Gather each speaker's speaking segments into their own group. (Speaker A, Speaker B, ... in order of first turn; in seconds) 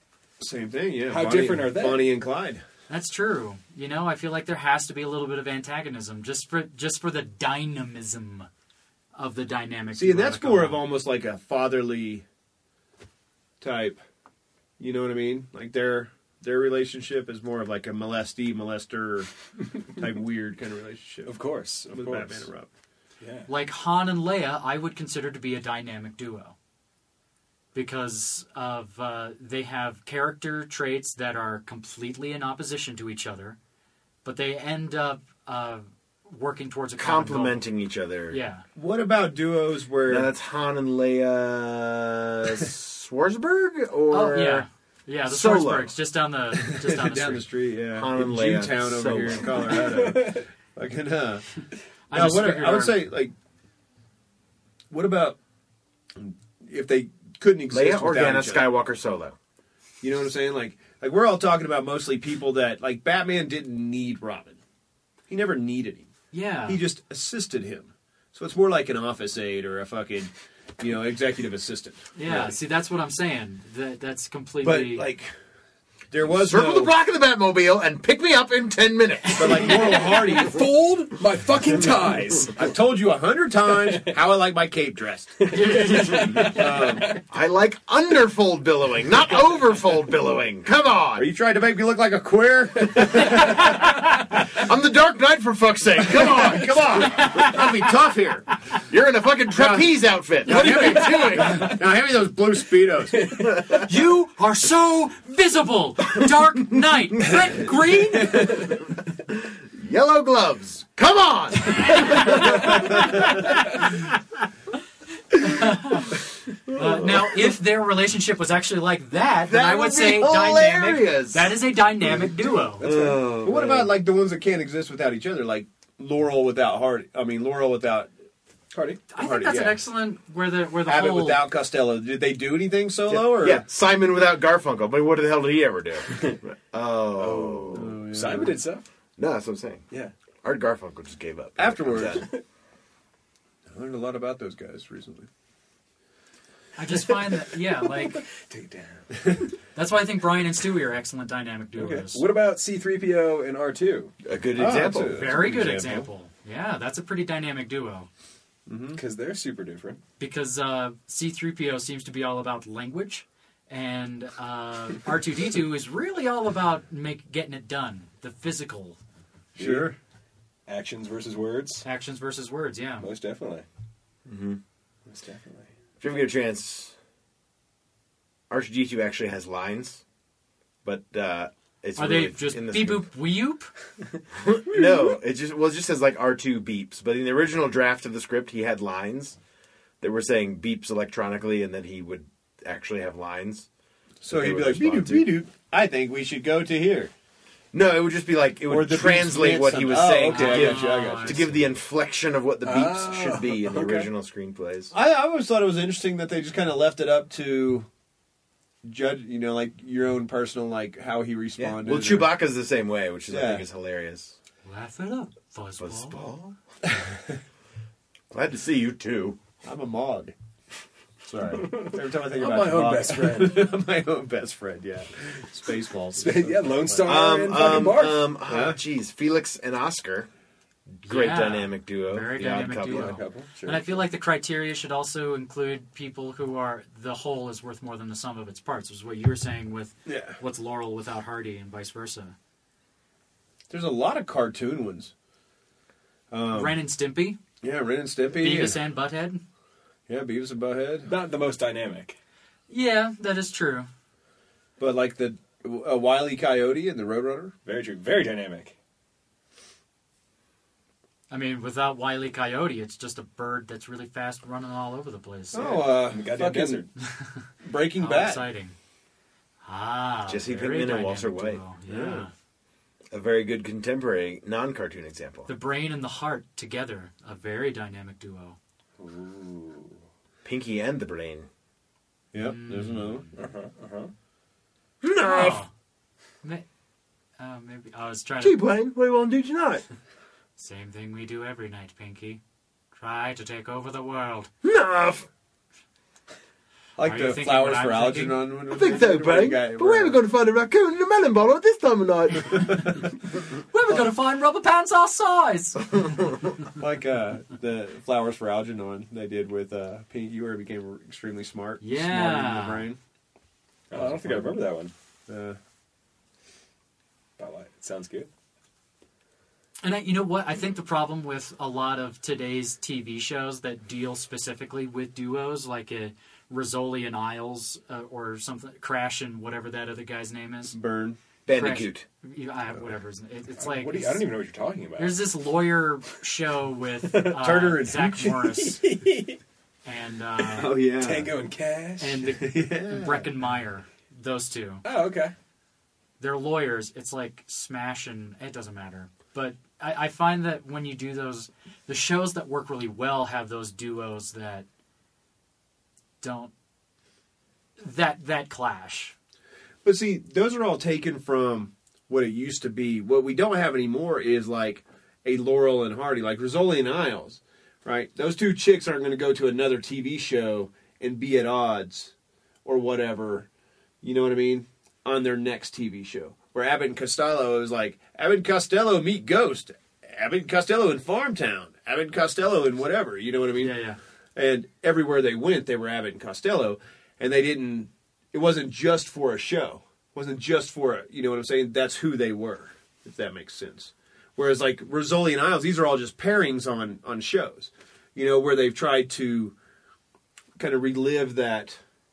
Speaker A: 0.4-2.6, 9.9-12.2, 13.6-14.0, 14.8-21.4, 21.9-22.7, 38.7-40.3, 46.6-51.4, 52.1-53.3, 54.9-55.4, 56.1-58.7, 60.0-64.6, 65.3-66.1, 66.7-72.5, 74.6-75.3, 76.1-76.9, 79.3-80.6, 82.5-87.2, 91.2-94.0, 96.1-98.5, 99.5-99.9, 100.4-103.4, 122.8-128.1, 129.1-129.8, 130.8-133.6, 137.7-138.6, 141.6-142.2, 143.7-145.3, 154.6-156.1, 158.7-159.0, 169.5-169.9, 194.2-197.1, 198.7-201.5, 204.9-207.9, 208.8-212.3, 213.3-213.6, 219.6-220.3, 221.2-228.8, 240.1-240.4, 243.7-245.1, 246.3-246.8, 247.6-248.8, 250.1-251.1, 254.8-257.5, 265.5-266.9, 267.6-268.5, 271.9-272.3, 282.3-283.3, 297.0-300.2, 306.8-313.0, 313.9-314.6, 315.3-315.6, 330.7-331.2, 337.3-338.3, 340.5-341.3, 342.4-343.3, 359.8-372.1, 372.6-373.5, 374.0-383.8, 384.3-399.5, 400.6-401.8
Speaker B: 1.1-2.1, 21.2-22.4, 23.2-23.5, 49.5-50.5, 79.8-82.6, 85.5-87.2, 122.8-123.7, 128.7-129.0, 137.2-138.8, 147.1-149.4, 151.8-154.1, 158.9-160.0, 169.6-169.9, 170.7-171.8, 173.0-173.7, 175.1-175.7, 184.8-185.0, 202.6-204.1, 221.5-223.7, 226.1-228.2, 232.8-234.0, 251.1-252.2, 257.6-258.7, 265.5-266.9, 279.0-280.0, 283.3-284.1, 313.9-314.9, 317.4-318.3, 333.6-335.2, 337.1-337.4, 338.2-339.4, 340.9-342.3, 344.8-345.3
Speaker C: 2.9-8.5, 9.1-10.8, 23.5-26.5, 27.7-33.6, 34.2-37.6, 38.3-38.6, 44.1-47.4, 52.1-53.0, 66.3-66.8, 72.1-75.1, 85.5-86.5, 100.5-101.3, 103.7-108.7, 115.4-116.2, 116.7-122.8, 129.1-131.4, 146.8-148.2, 149.7-152.2, 155.1-158.1, 160.2-169.0, 171.8-173.1, 181.9-183.7, 200.3-201.6, 214.6-216.2, 231.0-242.3, 246.5-247.4, 248.4-249.4, 252.7-253.9, 261.3-265.8, 267.0-268.7, 269.6-272.3, 275.5-278.6, 282.4-283.4, 285.2-285.7, 287.4-288.6, 290.6-292.4, 292.9-294.5, 297.0-298.4, 303.7-306.3, 311.8-312.9, 319.8-330.7, 331.5-334.3, 335.0-338.8, 339.8-340.8, 342.0-344.8, 346.2-354.6, 356.2-356.5, 357.8-359.1, 383.6-384.0
Speaker D: 37.0-38.4, 40.0-44.6, 45.3-45.9, 47.9-49.5, 57.7-59.3, 76.2-79.9, 87.3-91.3, 94.5-97.8, 98.8-101.8, 109.3-113.3, 116.7-117.1, 119.4-121.6, 122.8-123.9, 133.1-137.9, 139.2-139.8, 140.4-142.3, 154.2-155.4, 174.2-174.6, 176.0-176.9, 178.5-180.0, 180.8-183.1, 184.3-189.4, 190.0-193.7, 194.2-195.4, 197.7-204.9, 211.8-214.3, 215.8-216.6, 218.3-219.4, 227.0-230.3, 231.0-233.1, 270.3-271.6, 273.1-275.5, 280.4-281.5, 285.0-285.6, 288.4-289.8, 294.6-295.3, 298.7-303.0, 331.4-332.0